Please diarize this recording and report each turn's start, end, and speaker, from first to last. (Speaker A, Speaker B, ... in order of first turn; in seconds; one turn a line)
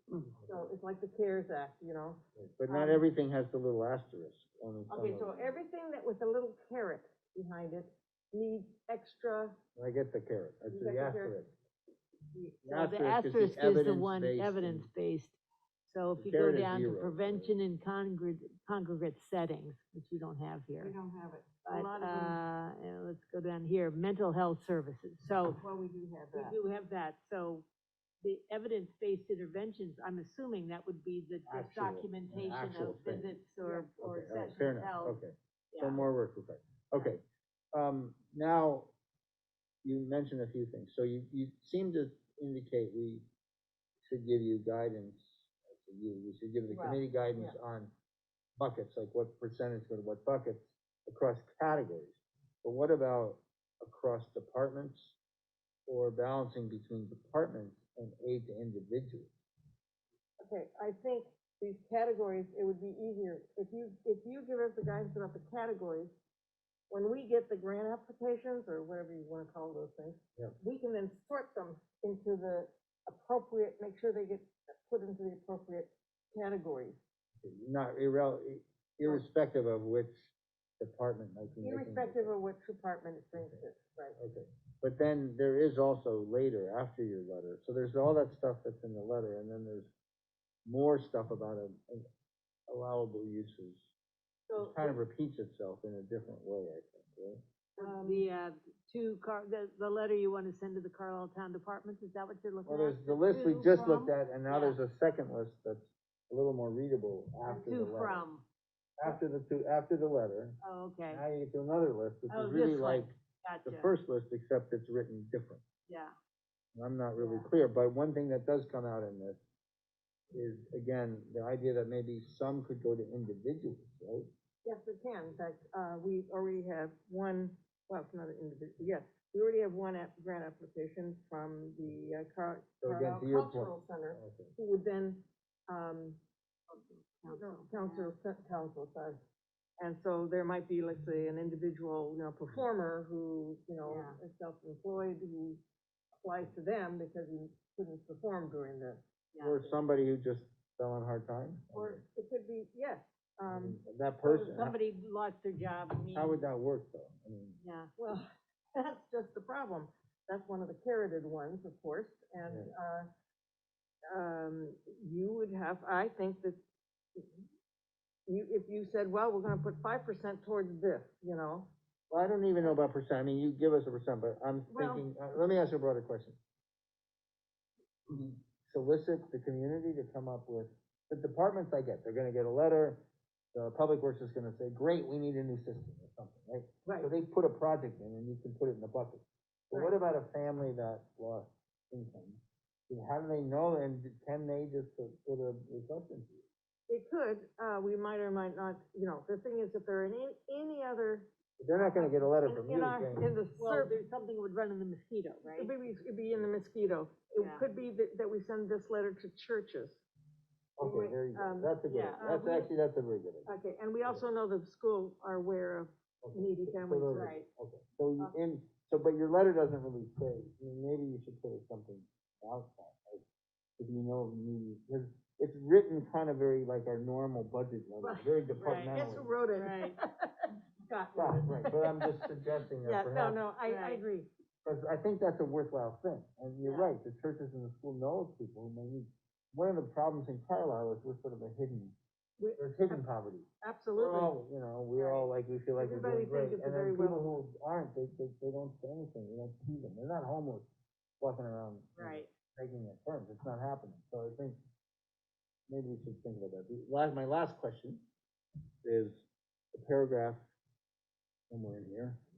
Speaker A: 0.3-0.6
Speaker B: 0.5-3.0
Speaker A: 2.4-5.5
Speaker B: 4.9-9.6
Speaker A: 9.8-11.5
Speaker B: 10.7-11.4
Speaker B: 12.3-12.6
Speaker A: 12.6-14.9
Speaker C: 12.7-15.4
Speaker C: 15.9-20.9
Speaker A: 16.1-17.6
Speaker B: 20.8-22.4
Speaker C: 21.6-25.6
Speaker B: 25.6-26.6
Speaker C: 26.3-27.6
Speaker C: 28.2-35.2
Speaker A: 31.5-33.3
Speaker B: 33.6-33.9
Speaker A: 34.0-37.2
Speaker C: 35.7-36.1
Speaker A: 37.7-38.9
Speaker A: 39.8-43.2
Speaker A: 44.0-47.9
Speaker B: 46.7-47.6
Speaker A: 48.6-55.2
Speaker A: 55.9-59.3
Speaker B: 60.4-66.1
Speaker B: 66.9-77.0
Speaker A: 77.4-82.3
Speaker B: 81.6-84.2
Speaker A: 83.4-83.6
Speaker A: 84.2-89.9
Speaker A: 90.7-92.1
Speaker A: 92.7-93.9
Speaker B: 94.5-95.0
Speaker A: 94.5-97.4
Speaker B: 97.8-98.2
Speaker C: 97.8-104.8
Speaker A: 102.7-108.2
Speaker C: 107.5-108.4
Speaker A: 109.0-110.6
Speaker C: 110.6-111.2
Speaker A: 111.1-113.1
Speaker C: 112.3-113.9
Speaker A: 113.6-115.6
Speaker C: 115.9-116.1
Speaker A: 116.7-119.4
Speaker C: 117.2-117.4
Speaker A: 120.3-124.3
Speaker B: 124.6-136.2
Speaker A: 132.8-134.5
Speaker C: 136.7-138.1
Speaker B: 137.3-139.2
Speaker B: 139.8-145.6
Speaker C: 143.9-144.2
Speaker B: 146.1-149.0
Speaker C: 149.3-149.6
Speaker A: 149.4-152.0
Speaker B: 151.7-154.5
Speaker A: 153.5-154.8
Speaker C: 154.4-156.4
Speaker A: 156.1-157.6
Speaker C: 157.6-157.9
Speaker B: 158.0-163.1
Speaker A: 162.5-162.7
Speaker B: 164.1-166.6
Speaker B: 167.2-167.4
Speaker B: 168.3-171.7
Speaker A: 172.1-176.4
Speaker B: 174.7-175.0
Speaker A: 178.1-196.4
Speaker B: 196.9-203.9
Speaker A: 201.6-203.3
Speaker C: 203.6-205.7
Speaker B: 205.5-210.0
Speaker C: 207.4-207.6
Speaker A: 210.8-213.5
Speaker B: 210.8-212.7
Speaker C: 211.9-212.2
Speaker B: 213.4-217.4
Speaker A: 216.2-223.2
Speaker C: 217.1-217.4
Speaker A: 223.8-229.3
Speaker C: 228.0-229.0
Speaker B: 228.9-232.1
Speaker C: 229.6-230.0
Speaker A: 231.1-233.4
Speaker B: 232.8-234.3
Speaker C: 233.6-234.0
Speaker A: 234.6-241.9
Speaker B: 236.6-236.9
Speaker B: 242.4-243.0
Speaker A: 242.6-250.7
Speaker B: 243.6-244.4
Speaker B: 244.9-247.4
Speaker A: 251.2-254.6
Speaker C: 251.9-252.3
Speaker A: 255.7-258.0
Speaker A: 258.8-259.2
Speaker A: 259.7-260.4
Speaker A: 261.5-262.2